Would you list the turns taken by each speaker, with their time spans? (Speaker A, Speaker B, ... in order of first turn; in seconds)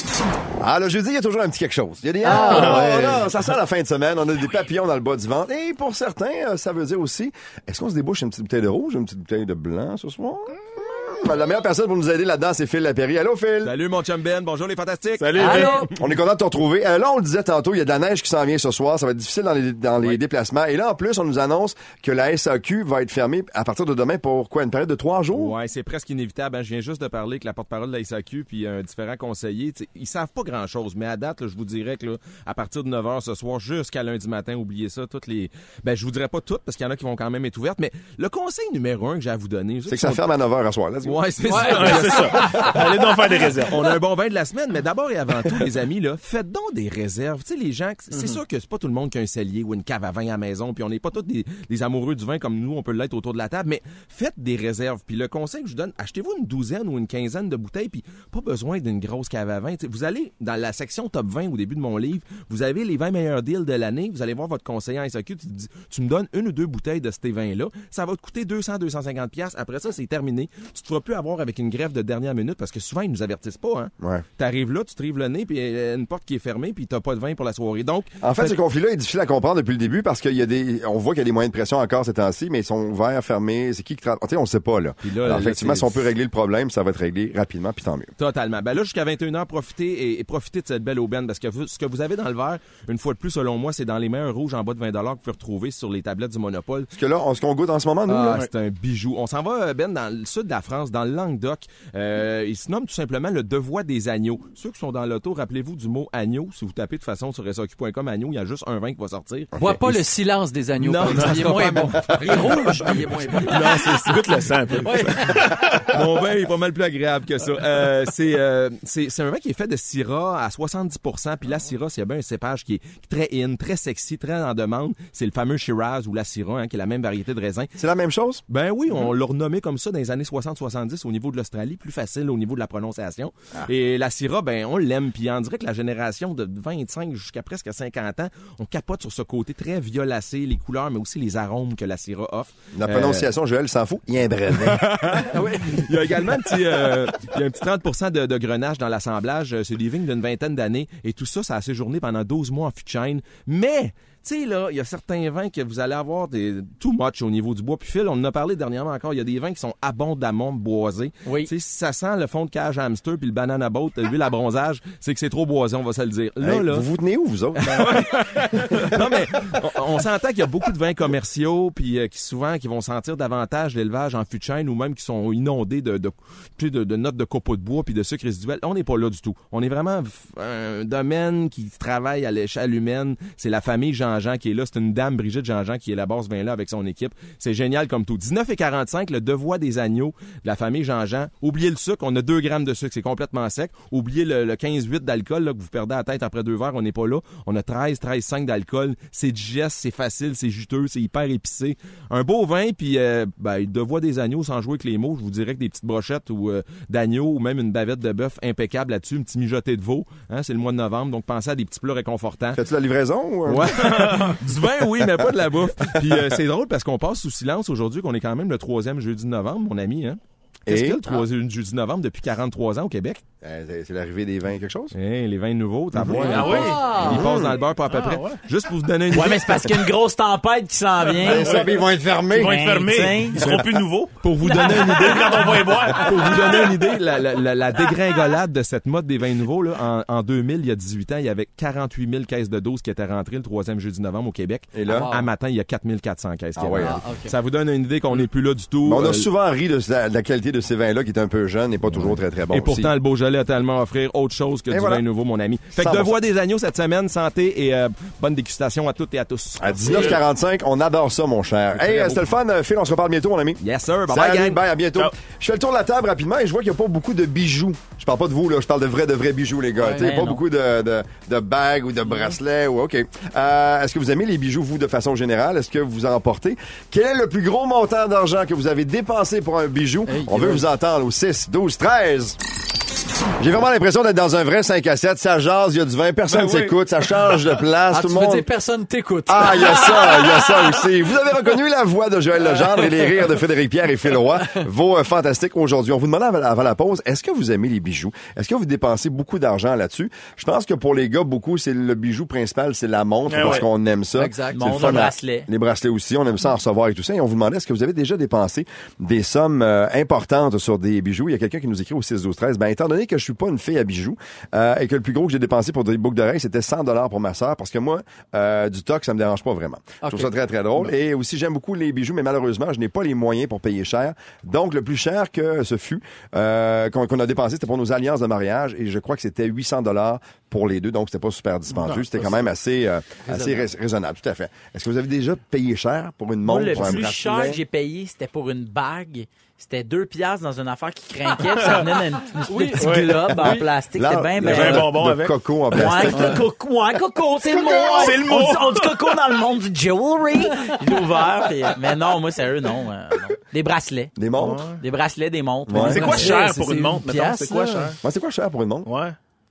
Speaker A: 0.6-13.7, 16.0-25.6, 39.9-41.2, 74.0-74.2, 78.2-88.1, 96.9-98.4, 109.5-109.9, 111.1-112.2, 127.8-128.4, 142.7-145.0, 166.4-168.1, 168.7-169.0, 212.5-215.1, 215.8-216.4, 220.7-221.0, 223.4-224.9, 225.9-227.6, 231.2-232.6, 244.7-245.1, 246.6-247.0, 248.8-252.9, 254.7-255.0, 255.8-256.2, 259.6-282.4, 283.4-288.5, 289.2-337.6, 343.4-346.4, 354.2-354.7, 355.7-356.2, 358.0-358.9
Speaker B: 2.2-3.3, 15.4-15.8, 41.5-42.7, 109.6-113.9, 114.8-115.4, 145.3-145.9, 226.4-227.2, 244.8-245.3, 246.8-247.3, 269.8-270.1, 280.1-280.6, 287.9-290.6, 304.1-305.0, 320.0-320.9, 331.7-332.5, 333.2-333.7, 342.4-343.6, 355.9-357.9
Speaker C: 2.4-2.9, 15.2-15.9, 41.7-43.8, 48.1-48.4, 113.5-116.0, 226.1-226.9, 227.9-228.4, 231.2-236.8, 259.9-260.2, 286.3-286.7, 303.3-303.6, 341.5-342.0, 342.8-343.5, 344.4-345.3, 347.6-349.2, 354.4-354.8, 355.8-358.0, 358.9-359.1
Speaker D: 13.6-15.8, 25.3-40.2, 41.0-78.5, 85.0-86.1, 88.2-96.9, 98.1-109.6, 110.8-114.9, 115.8-127.7, 128.5-143.3, 144.7-166.9, 167.6-212.6, 213.5-223.2, 224.9-229.7, 234.2-249.3, 251.9-260.2, 261.8-262.2, 263.6-264.6
Speaker E: 161.2-161.5, 229.1-231.6, 232.3-233.5, 269.9-270.4, 304.5-305.5, 336.4-344.9, 345.7-356.3